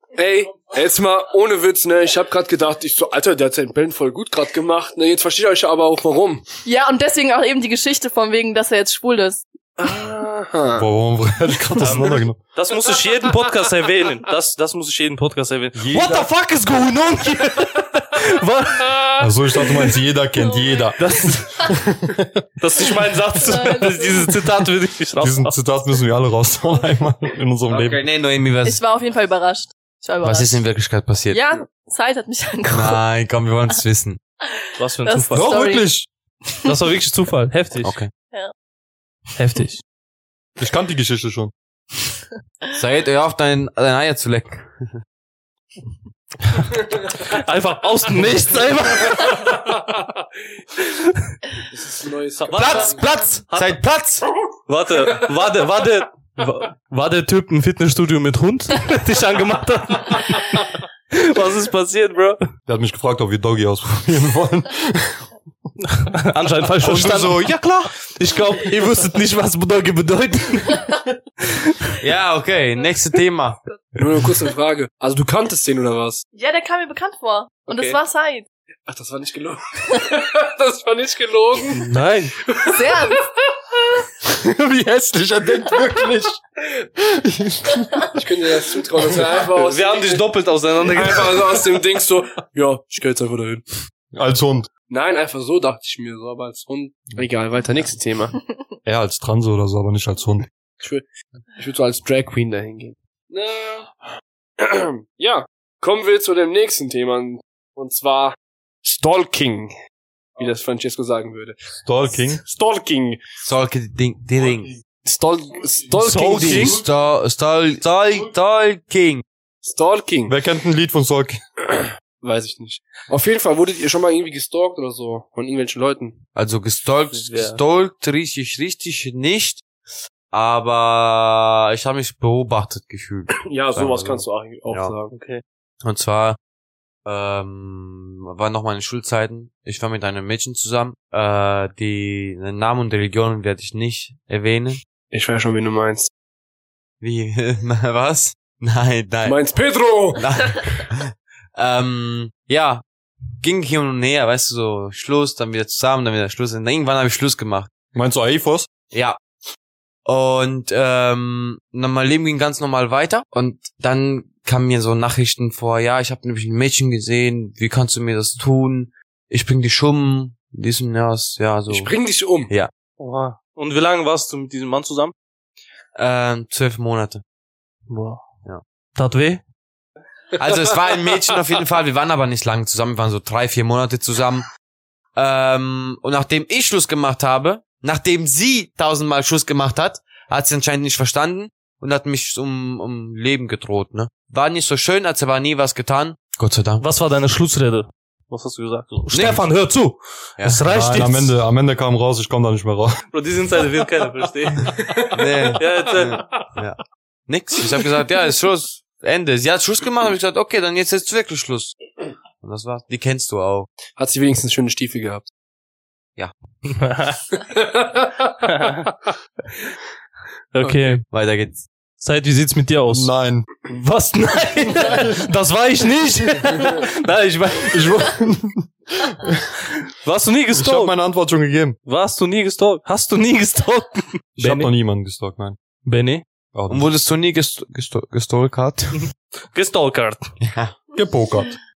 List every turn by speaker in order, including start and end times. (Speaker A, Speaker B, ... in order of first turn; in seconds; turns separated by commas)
Speaker A: 0.2-6.5, Speaker B: 6.7-9.4, Speaker A: 9.8-10.9, Speaker C: 10.8-12.4, Speaker D: 11.8-19.6, Speaker C: 15.8-16.3, Speaker C: 19.2-22.4, Speaker B: 20.4-21.4, Speaker D: 21.0-21.7, Speaker D: 22.6-25.5, Speaker B: 23.4-24.3, Speaker C: 25.2-28.0, Speaker E: 27.7-28.8, Speaker B: 28.6-30.6, Speaker E: 30.2-31.4, Speaker B: 31.3-33.0, Speaker E: 32.7-34.2, Speaker D: 34.8-35.5, Speaker B: 35.0-35.9, Speaker C: 35.3-36.1, Speaker D: 36.6-38.0, Speaker E: 37.8-38.1, Speaker D: 39.4-39.8, Speaker C: 40.6-41.5, Speaker E: 42.7-45.0, Speaker D: 46.6-49.6, Speaker D: 50.9-51.4, Speaker A: 51.7-53.0, Speaker D: 52.4-53.8, Speaker E: 52.5-54.3, Speaker D: 54.7-62.4, Speaker C: 62.7-65.2, Speaker D: 65.8-67.5, Speaker E: 66.8-67.9, Speaker D: 68.1-71.9, Speaker E: 72.0-73.6, Speaker A: 74.0-76.2, Speaker B: 76.3-78.5, Speaker A: 77.7-78.0, Speaker A: 78.9-81.9, Speaker D: 81.7-82.4, Speaker A: 82.5-83.2, Speaker B: 82.7-83.2, Speaker C: 84.3-86.4, Speaker C: 87.0-88.1, Speaker A: 88.2-90.2, Speaker D: 89.5-91.6, Speaker A: 90.9-93.6, Speaker C: 94.1-94.7, Speaker A: 94.9-98.4, Speaker C: 98.9-100.5, Speaker A: 101.6-103.9, Speaker A: 104.6-109.7, Speaker A: 110.4-111.6, Speaker C: 111.8-112.4, Speaker A: 112.4-113.2, Speaker E: 113.4-114.8, Speaker A: 115.0-116.8, Speaker D: 116.0-116.8, Speaker E: 116.5-119.2, Speaker A: 119.6-120.3, Speaker C: 120.3-121.4, Speaker A: 122.2-126.2, Speaker E: 126.3-129.6, Speaker D: 127.1-127.6, Speaker E: 130.3-134.9, Speaker A: 133.4-135.1, Speaker D: 135.1-135.4, Speaker E: 135.8-136.4, Speaker E: 137.1-144.8, Speaker A: 145.1-146.1, Speaker E: 147.0-149.4, Speaker A: 149.2-150.2, Speaker E: 150.1-152.8, Speaker E: 153.4-157.7, Speaker C: 157.9-158.7, Speaker E: 158.9-159.2, Speaker E: 160.1-171.9, Speaker A: 171.7-172.5, Speaker D: 173.0-175.1, Speaker E: 176.0-177.2, Speaker D: 177.9-178.2, Speaker D: 179.0-179.4, Speaker E: 180.4-184.5, Speaker E: 185.2-196.9, Speaker D: 196.8-201.3, Speaker E: 199.1-199.4, Speaker C: 200.7-203.0, Speaker D: 203.1-204.9, Speaker E: 205.1-211.8, Speaker D: 205.6-206.3, Speaker E: 212.4-213.7, Speaker A: 214.0-215.3, Speaker D: 216.7-217.2, Speaker A: 217.4-218.1, Speaker D: 218.5-218.9, Speaker D: 220.5-221.0, Speaker E: 221.1-221.7, Speaker D: 222.0-223.1, Speaker C: 222.9-223.5, Speaker D: 223.7-228.1, Speaker C: 227.7-229.5, Speaker D: 229.8-230.9, Speaker C: 230.5-231.8, Speaker D: 231.9-234.7, Speaker C: 234.4-235.6, Speaker D: 235.8-236.2, Speaker C: 236.5-236.8, Speaker E: 236.7-239.1, Speaker D: 239.5-240.3, Speaker E: 240.4-240.8, Speaker C: 240.9-241.6